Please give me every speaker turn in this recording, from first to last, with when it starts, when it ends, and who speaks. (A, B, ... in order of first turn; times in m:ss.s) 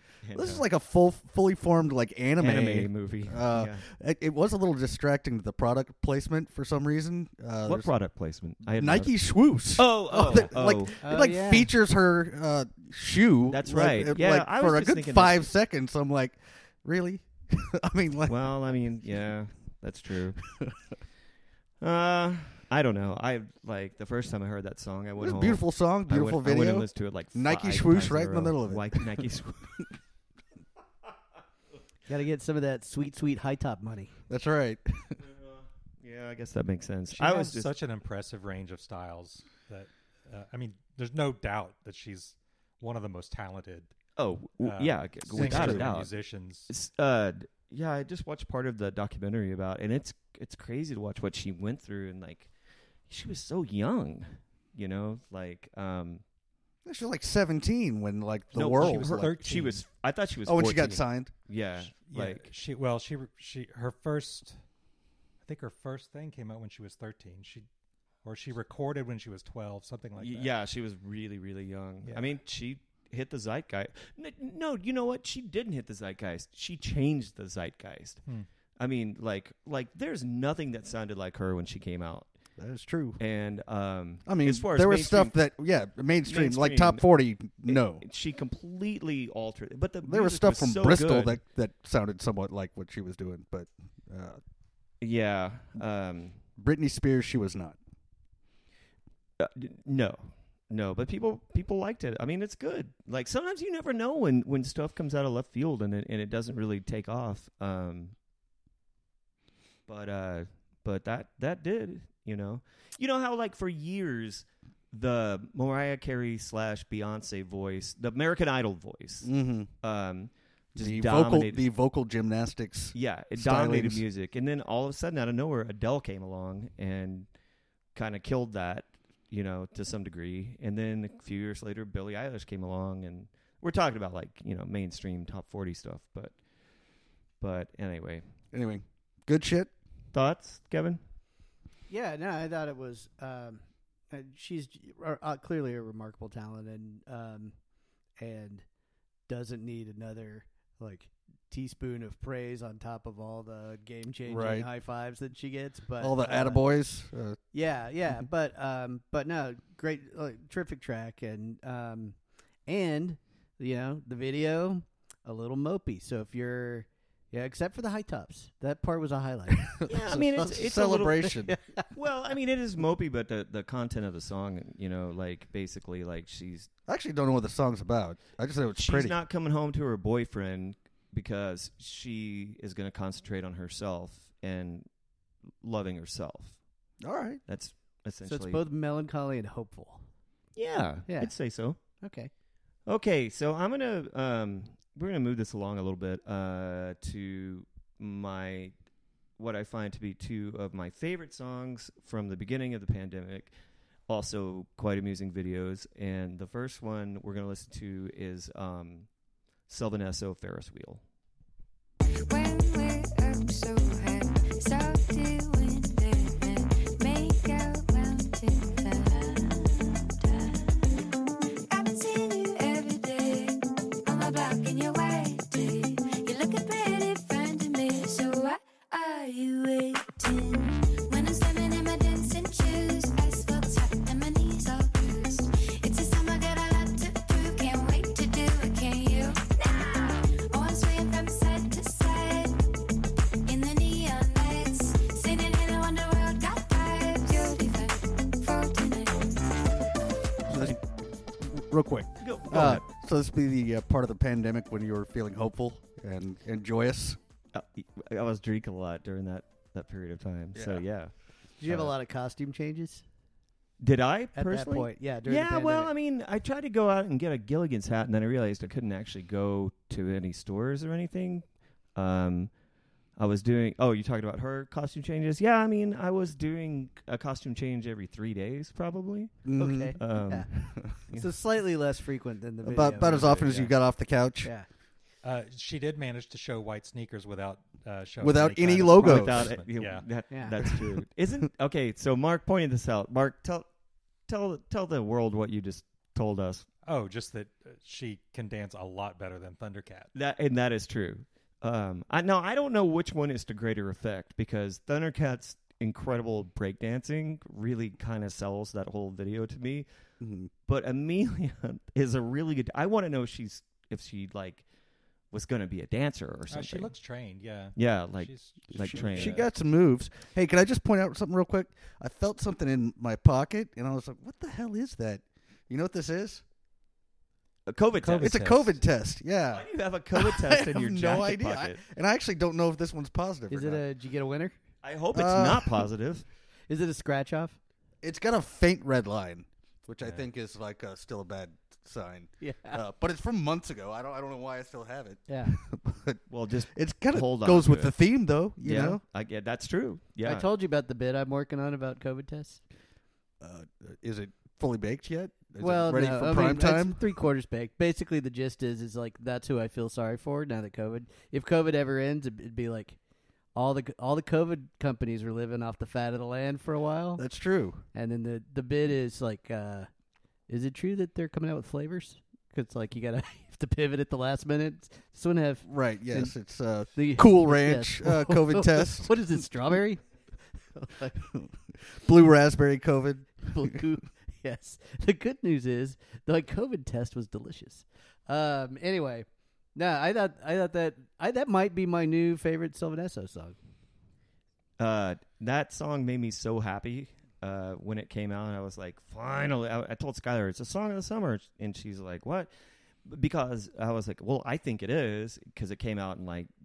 0:00.2-0:00.6 A
0:00.3-0:07.9 B
0:02.4-0:03.8 A
0:07.6-0:09.1 A
0:08.6-0:18.5 B
0:09.7-0:11.0 A
0:11.0-0:11.7 C
0:13.5-0:15.4 A
0:18.3-0:20.4 A
0:20.4-0:20.8 B
0:21.8-0:29.9 A
0:25.2-0:29.8 B
0:32.1-0:34.2 C
0:34.3-0:35.2 B
0:35.2-0:37.7 A
0:37.1-0:43.9 D
0:44.2-0:46.1 A
0:44.6-0:46.7 D
0:45.3-0:45.9 B
0:46.7-0:52.5 A
0:53.1-0:56.2 A
0:56.8-0:59.3 B
0:58.5-1:02.5 A
0:58.7-0:59.9 D
1:00.5-1:01.3 B
1:01.8-1:04.6 D
1:05.4-1:07.7 D
1:08.2-1:10.5 D
1:10.2-1:18.2 A
1:12.0-1:12.4 D
1:18.8-1:22.3 A
1:22.6-1:23.2 B
1:23.2-1:25.4 A
1:24.2-1:28.0 B
1:26.2-1:27.1 A
1:27.6-1:31.4 A
1:30.0-1:34.4 B
1:35.0-1:36.4 A
1:36.6-1:37.8 B
1:39.4-1:48.1 A
1:49.9-2:01.6 A
1:59.2-1:59.7 B
2:00.7-2:04.0 B
2:02.9-2:07.3 A
2:07.9-2:16.4 A
2:17.4-2:18.2 A
2:18.5-2:19.7 B
2:20.1-2:21.0 A
2:21.9-2:27.5 C
2:28.2-2:28.6 C
2:29.3-2:36.7 C
2:34.2-2:34.7 B
2:36.0-2:37.4 B
2:37.5-2:49.8 C
2:49.7-2:51.6 B
2:49.9-2:51.3 A
2:51.3-2:51.8 C
2:51.9-2:56.7 A
2:56.9-2:59.2 B
2:58.8-3:04.9 A
3:05.6-3:06.6 A
3:07.0-3:07.4 B
3:07.5-3:08.6 A
3:08.2-3:10.0 C
3:10.6-3:11.8 A
3:11.1-3:11.3 C
3:12.0-3:12.3 C
3:12.9-3:18.7 A
3:19.4-3:23.5 A
3:24.1-3:29.1 A
3:29.7-3:31.0 A
3:32.2-3:41.1 E
3:41.7-4:02.6 E
4:03.4-4:09.5 E
4:10.4-4:10.8 B
4:11.4-4:17.2 B
4:12.2-4:12.8 A
4:17.5-4:21.1 A
4:20.5-4:20.8 B
4:21.6-4:23.0 C
4:21.6-4:21.9 A
4:23.8-4:32.5 A
4:24.3-4:25.9 C
4:33.2-4:39.4 A
4:39.4-4:40.0 B
4:39.6-4:40.5 C
4:40.0-4:41.3 A
4:41.1-4:43.8 C
4:42.6-4:44.5 B
4:44.4-4:44.7 C
4:45.2-4:50.2 D
4:48.2-4:49.5 B
4:48.8-4:53.7 A
4:50.3-4:50.6 C
4:54.3-4:56.7 A
4:56.8-5:00.1 D
5:00.1-5:09.9 A
5:10.2-5:10.5 B
5:10.6-5:14.6 A
5:15.3-5:16.9 A
5:16.5-5:19.5 D
5:17.7-5:19.4 A
5:18.8-5:26.4 B
5:27.7-5:28.7 A
5:28.0-5:28.8 D
5:28.2-5:33.8 B
5:29.5-5:31.8 A
5:33.5-5:34.6 C
5:34.8-5:36.2 A
5:35.1-5:35.8 B
5:36.7-5:37.6 C
5:38.0-5:46.2 B
5:42.4-5:42.8 C
5:45.3-5:45.6 C
5:46.3-5:48.0 A
5:46.7-5:49.0 B
5:48.6-5:50.5 A
5:50.2-5:52.6 C
5:53.4-5:57.2 B
5:55.6-6:03.0 C
6:03.5-6:07.2 C
6:07.2-6:07.8 B
6:07.9-6:09.9 C
6:10.5-6:16.3 C
6:15.6-6:19.4 B
6:16.9-6:20.0 C
6:20.7-6:21.2 C
6:21.3-6:23.6 B
6:23.5-6:33.6 C
6:34.8-6:42.5 A
6:43.0-6:46.5 A